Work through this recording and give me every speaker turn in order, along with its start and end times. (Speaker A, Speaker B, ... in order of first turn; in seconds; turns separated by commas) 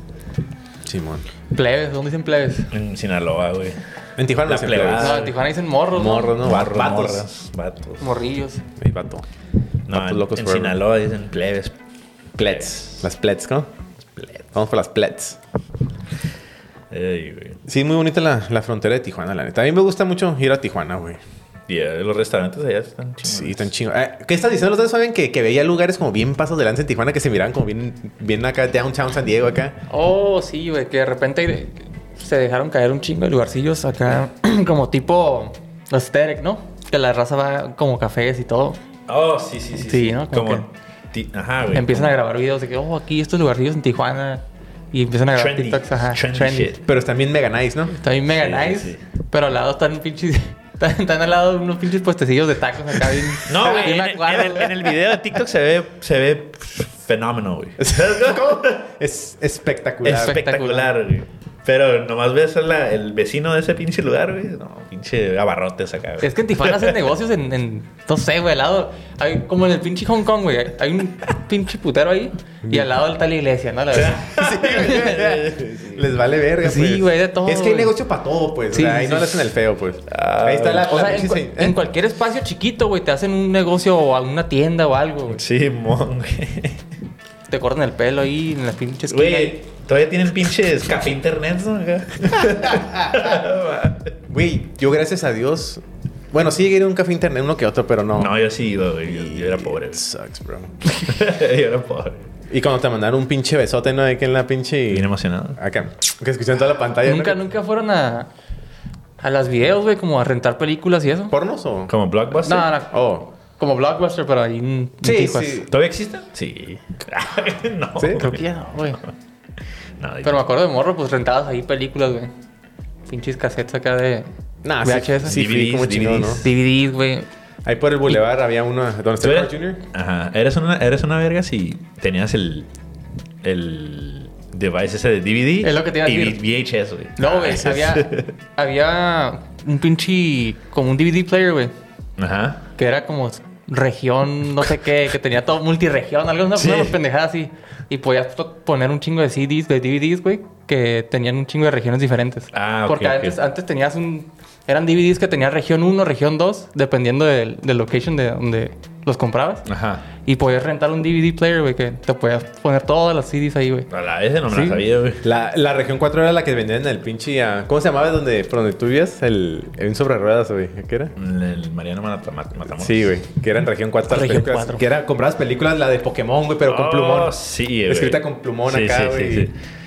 Speaker A: 0.8-1.2, Speaker B: 1.5-2.7, Speaker C: 2.7-3.8, Speaker A: 4.2-5.2, Speaker C: 4.4-5.3, Speaker B: 5.0-6.4, Speaker A: 5.9-7.2, Speaker C: 6.4-8.1, Speaker B: 8.0-8.6, Speaker A: 8.8-9.2, Speaker C: 9.9-11.7, Speaker A: 9.9-10.8, Speaker A: 12.4-13.7, Speaker C: 12.4-13.1, Speaker A: 14.5-15.4, Speaker C: 16.9-17.6, Speaker A: 17.7-21.2, Speaker C: 21.7-23.7, Speaker A: 23.2-29.8, Speaker B: 29.9-38.8, Speaker C: 39.1-42.2, Speaker B: 39.8-40.6, Speaker B: 41.7-46.7, Speaker C: 45.3-46.8, Speaker A: 46.8-47.9, Speaker B: 47.9-54.9, Speaker C: 48.4-49.0, Speaker C: 53.5-58.8, Speaker A: 57.8-60.4, Speaker C: 60.0-67.0, Speaker B: 60.1-60.9, Speaker B: 66.2-75.0, Speaker A: 72.6-72.9, Speaker C: 73.9-76.1, Speaker A: 74.2-81.8, Speaker B: 76.6-77.9, Speaker B: 78.7-79.5, Speaker C: 80.1-81.1, Speaker B: 80.8-85.4, Speaker C: 85.3-86.8, Speaker B: 87.5-89.6, Speaker C: 89.1-94.1, Speaker A: 92.6-93.3, Speaker A: 94.3-98.3, Speaker C: 98.2-100.0, Speaker A: 99.0-100.8, Speaker C: 100.9-102.3, Speaker A: 102.5-107.4, Speaker C: 104.9-105.6, Speaker B: 107.0-108.3, Speaker B: 109.2-111.3, Speaker A: 111.3-111.9, Speaker C: 111.9-112.7, Speaker B: 112.4-112.9, Speaker A: 112.9-113.3, Speaker B: 113.6-115.7, Speaker A: 115.0-115.7, Speaker C: 115.7-118.5, Speaker A: 118.0-118.4, Speaker B: 118.1-119.0, Speaker C: 120.0-120.4, Speaker B: 120.2-122.3, Speaker B: 123.1-124.3, Speaker A: 124.6-126.5, Speaker B: 124.8-125.4, Speaker C: 125.2-126.5, Speaker B: 126.3-127.3, Speaker A: 127.6-129.8, Speaker C: 129.2-132.7, Speaker C: 133.4-138.3, Speaker B: 135.6-136.4, Speaker B: 137.2-141.7, Speaker A: 137.2-137.7, Speaker C: 142.2-142.7, Speaker B: 142.8-159.7, Speaker C: 146.6-147.0, Speaker C: 152.5-153.3, Speaker C: 159.7-160.0, Speaker B: 160.2-163.9, Speaker C: 163.9-165.2, Speaker B: 164.5-164.8, Speaker A: 165.2-171.1, Speaker C: 171.2-173.1, Speaker A: 172.7-177.3, Speaker B: 174.1-174.8, Speaker C: 176.7-179.5, Speaker A: 177.9-179.5